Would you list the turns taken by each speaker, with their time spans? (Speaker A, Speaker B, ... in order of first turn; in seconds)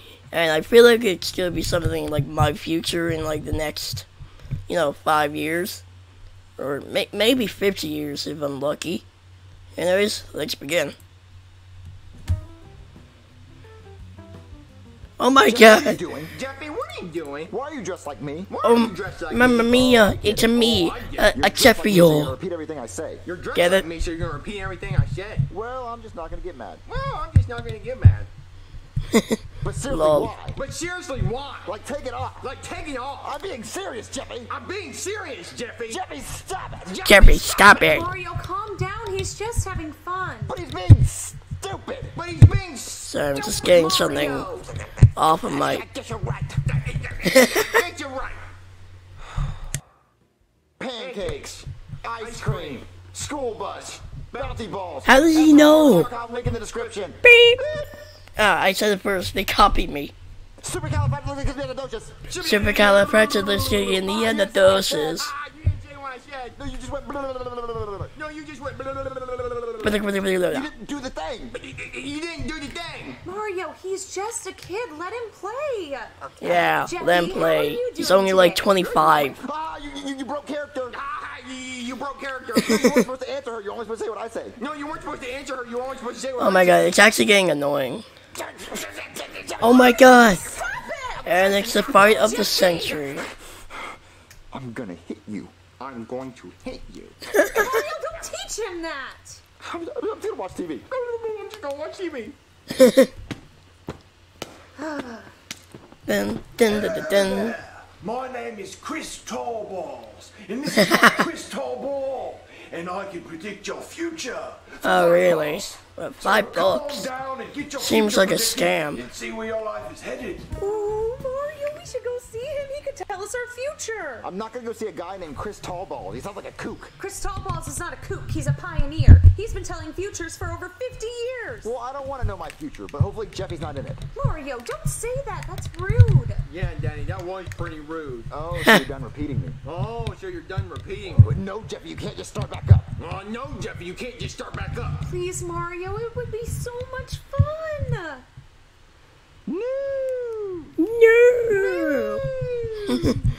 Speaker A: 0.3-4.1, 4.7-5.8, 6.6-9.0, 9.8-10.9, 15.2-16.0, 18.6-22.3, 23.6-23.8, 29.1-30.3, 37.0-38.1, 43.0-44.5, 45.1-45.8, 47.3-47.7, 55.0-56.1, 57.2-57.6, 58.4-60.1, 62.4-65.3, 69.8-70.7, 76.4-79.4, 86.4-88.0, 89.6-90.5, 91.2-93.3, 102.8-103.1, 106.0-107.5, 110.8-111.2, 114.8-117.1, 117.8-119.0, 150.8-152.2
Speaker B: 15.4-16.3, 17.5-18.5, 19.6-20.6, 21.3-23.2, 25.5-26.8, 29.6-30.6, 31.6-32.5, 33.2-34.5, 35.9-37.0, 40.5-42.1, 44.8-46.6, 50.8-55.2, 56.0-57.9, 60.6-62.3, 66.6-68.1, 70.5-71.5, 78.8-81.0, 82.7-84.6, 88.4-90.1, 91.7-92.3, 94.5-97.7, 99.6-100.9, 124.2-126.9, 131.6-134.0, 138.3-139.6, 141.2-142.9, 149.4-150.7, 151.9-153.2
Speaker C: 16.3-17.5, 18.5-21.4, 23.2-25.4, 26.9-28.3, 30.5-31.7, 32.4-33.4, 34.5-36.0, 36.9-38.0, 42.1-44.7, 46.6-48.4, 50.9-51.4, 52.0-52.8, 54.3-54.6, 55.3-57.1, 62.3-66.6, 68.1-70.0, 71.5-73.2, 80.9-83.0, 84.6-87.0, 100.9-102.3, 136.4-138.3, 139.6-141.3, 143.0-145.1
Speaker D: 37.9-40.6, 73.2-78.8, 89.9-93.1, 97.5-99.4, 104.8-105.3, 120.6-124.3, 127.0-131.7, 134.1-136.4, 145.0-148.2, 151.6-152.2
Speaker E: 106.6-120.5